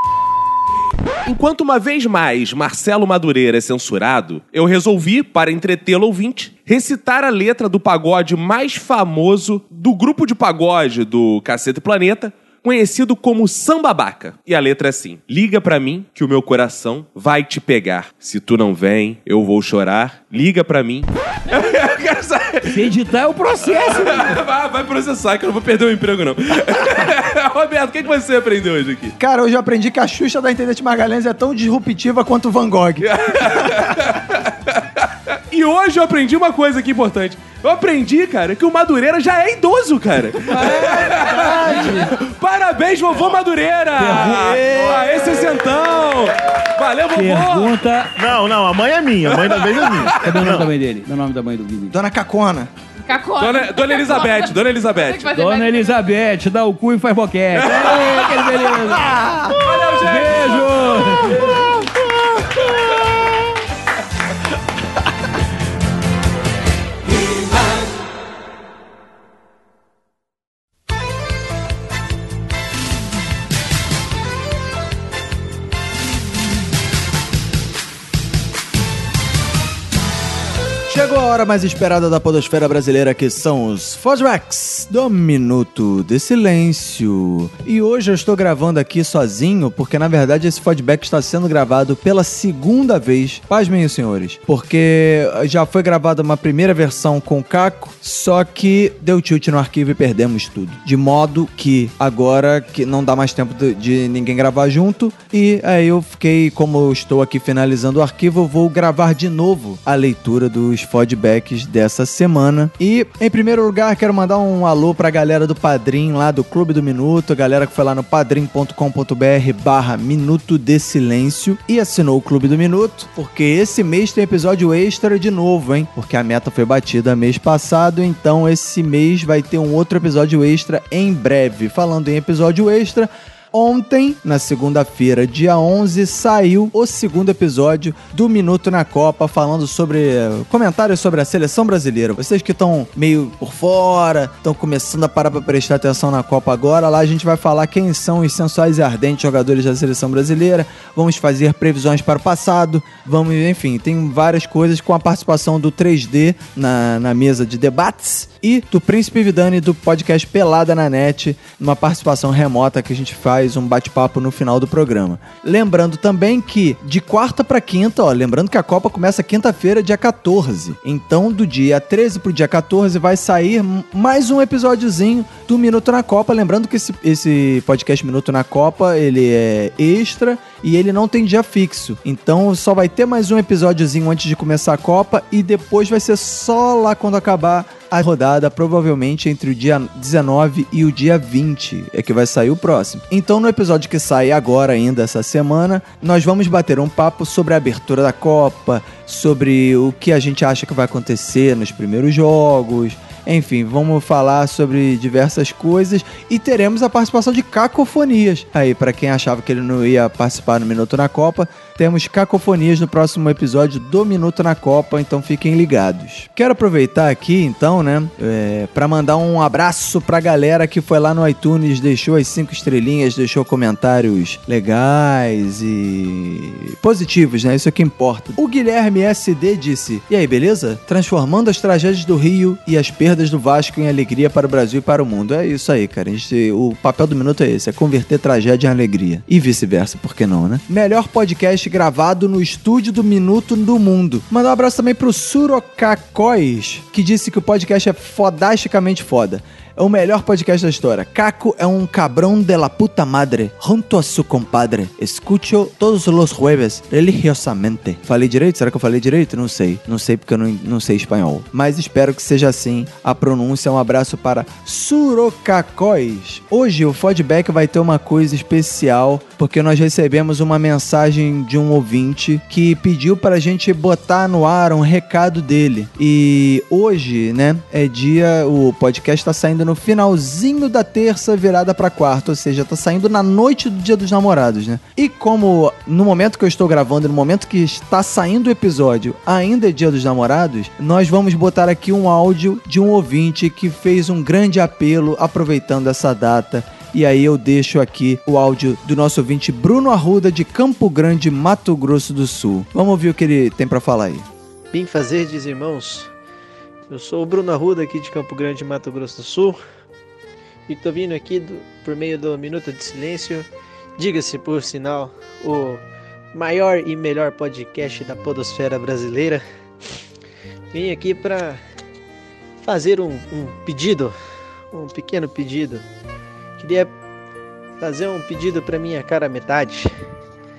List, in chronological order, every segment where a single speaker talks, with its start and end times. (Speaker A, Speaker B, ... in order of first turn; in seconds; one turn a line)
Speaker A: 1.2-22.9
Speaker B: 22.6-24.4
Speaker A: 23.7-29.1
Speaker C: 29.2-34.0
Speaker A: 33.0-34.8
Speaker A: 35.5-47.8
Speaker B: 40.5-42.0
Speaker C: 40.5-42.1
Speaker B: 44.0-44.6
Speaker C: 44.1-45.3
Speaker B: 47.1-48.1
Speaker D: 48.2-50.5
Speaker A: 49.3-50.5
Speaker B: 50.2-51.9
Speaker C: 51.9-52.7
Speaker E: 53.0-56.0
Speaker A: 53.4-55.3
Speaker B: 55.3-59.1
Speaker A: 57.6-58.9
Speaker C: 58.9-59.6
Speaker A: 59.5-61.6
Speaker B: 60.0-61.7
Speaker C: 80.9-304.2
Speaker F: 304.7-306.1
Speaker F: 306.9-309.6
Speaker F: 310.7-315.8
Speaker F: 316.3-319.4
Speaker F: 320.7-321.6
Speaker F: 322.6-324.1
Speaker F: 324.7-325.8
Speaker F: 326.6-326.9
Speaker F: 327.8-329.9